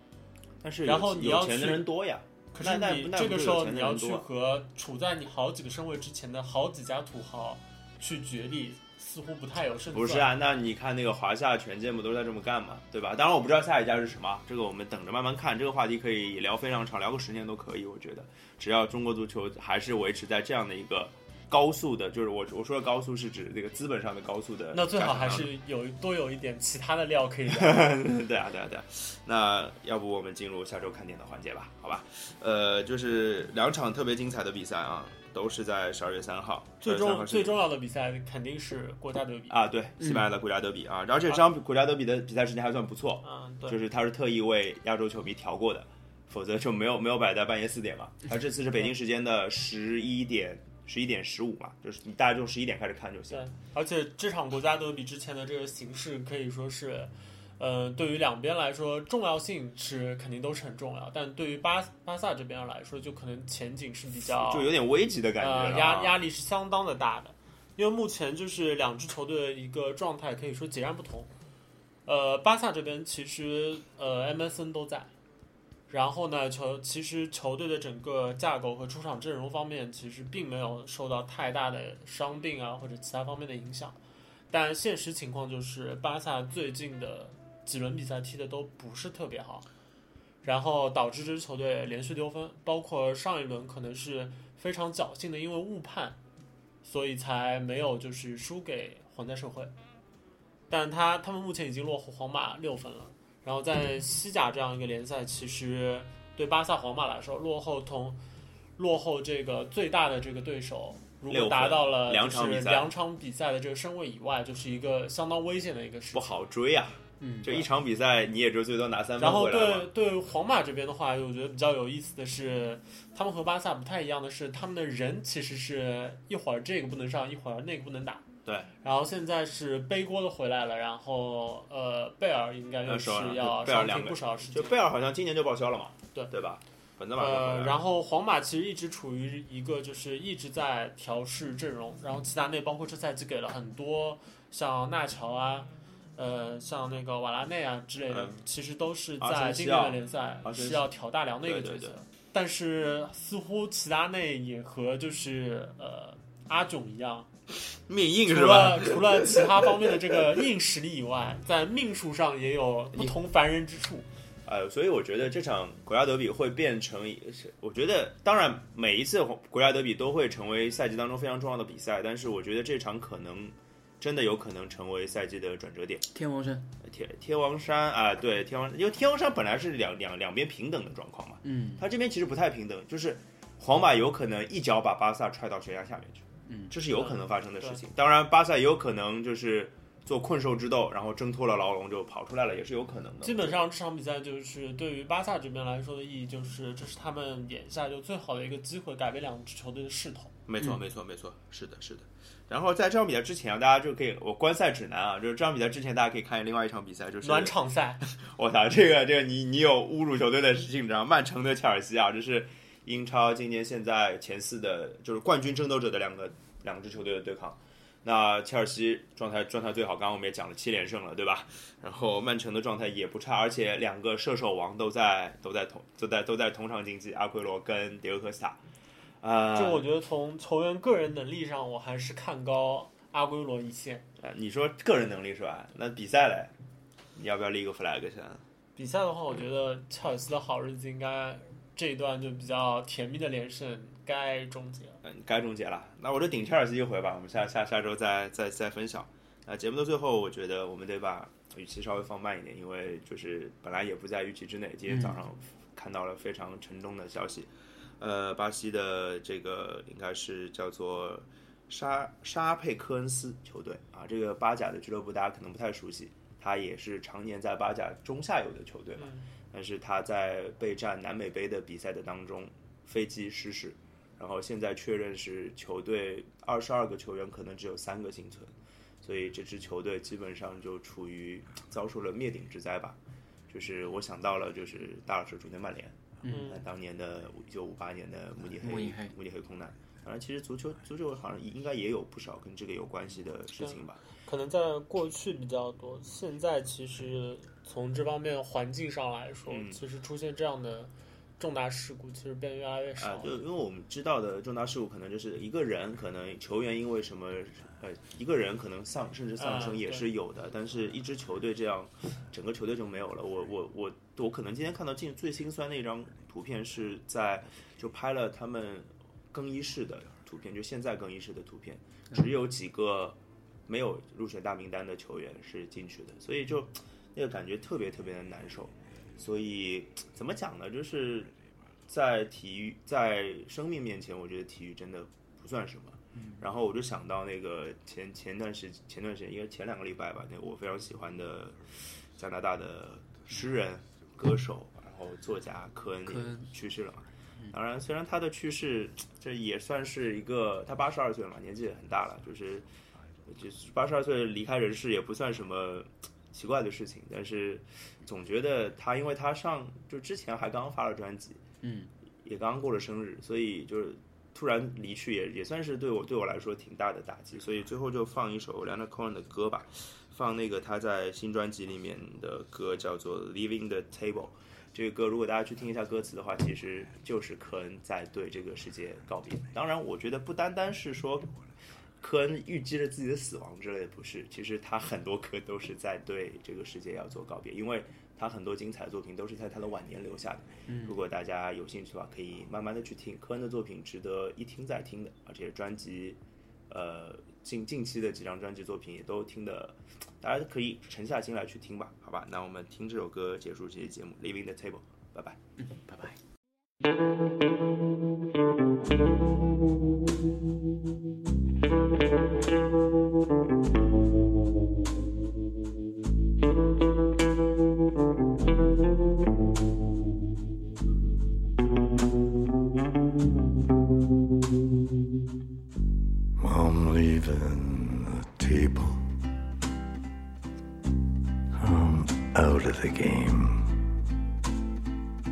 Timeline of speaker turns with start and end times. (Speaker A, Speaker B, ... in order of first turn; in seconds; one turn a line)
Speaker A: 0.6-4.2
Speaker B: 0.8-1.9
Speaker B: 2.5-10.3
Speaker A: 9.9-25.5
Speaker B: 24.7-28.0
Speaker A: 27.5-37.5
Speaker B: 36.8-39.6
Speaker A: 39.5-53.5
Speaker C: 40.0-40.3
Speaker B: 43.2-43.8
Speaker B: 53.3-64.7
Speaker A: 64.3-66.2
Speaker B: 65.4-71.3
Speaker B: 72.0-75.1
Speaker B: 75.9-84.0
Speaker B: 84.5-89.7
Speaker B: 90.4-96.2
Speaker B: 96.8-99.7
Speaker B: 100.7-108.2
Speaker B: 108.8-116.2
Speaker A: 111.3-112.9
Speaker A: 116.1-119.9
Speaker C: 117.2-117.5
Speaker B: 119.2-128.2
Speaker A: 128.4-128.7
Speaker B: 128.8-134.7
Speaker A: 132.8-137.8
Speaker B: 137.2-157.3
Speaker A: 148.1-148.4
Speaker A: 149.2-150.9
Speaker A: 151.4-151.9
Speaker A: 157.7-159.6
Speaker B: 158.2-164.1
Speaker A: 164.4-176.0
Speaker C: 176.1-176.7
Speaker A: 176.8-193.5
Speaker C: 181.4-181.8
Speaker C: 186.5-186.7
Speaker B: 186.9-187.8
Speaker B: 193.2-200.3
Speaker A: 200.5-228.6
Speaker B: 207.2-208.0
Speaker A: 229.2-229.9
Speaker B: 229.5-234.0
Speaker A: 234.2-236.5
Speaker A: 237.2-238.4
Speaker B: 238.8-245.0
Speaker A: 245.0-283.0
Speaker C: 254.9-255.2
Speaker B: 269.0-269.3
Speaker A: 283.5-294.0
Speaker C: 286.2-286.5
Speaker B: 286.3-286.6
Speaker C: 288.6-289.1
Speaker B: 293.6-303.4
Speaker A: 299.5-299.8
Speaker A: 303.0-331.3
Speaker B: 309.4-310.1
Speaker A: 331.9-352.7
Speaker C: 346.1-346.5
Speaker A: 353.2-361.4
Speaker C: 361.6-361.9
Speaker A: 362.2-381.4
Speaker A: 382.0-405.4
Speaker C: 390.7-391.0
Speaker C: 405.6-406.2
Speaker D: 426.4-429.0
Speaker D: 431.5-433.9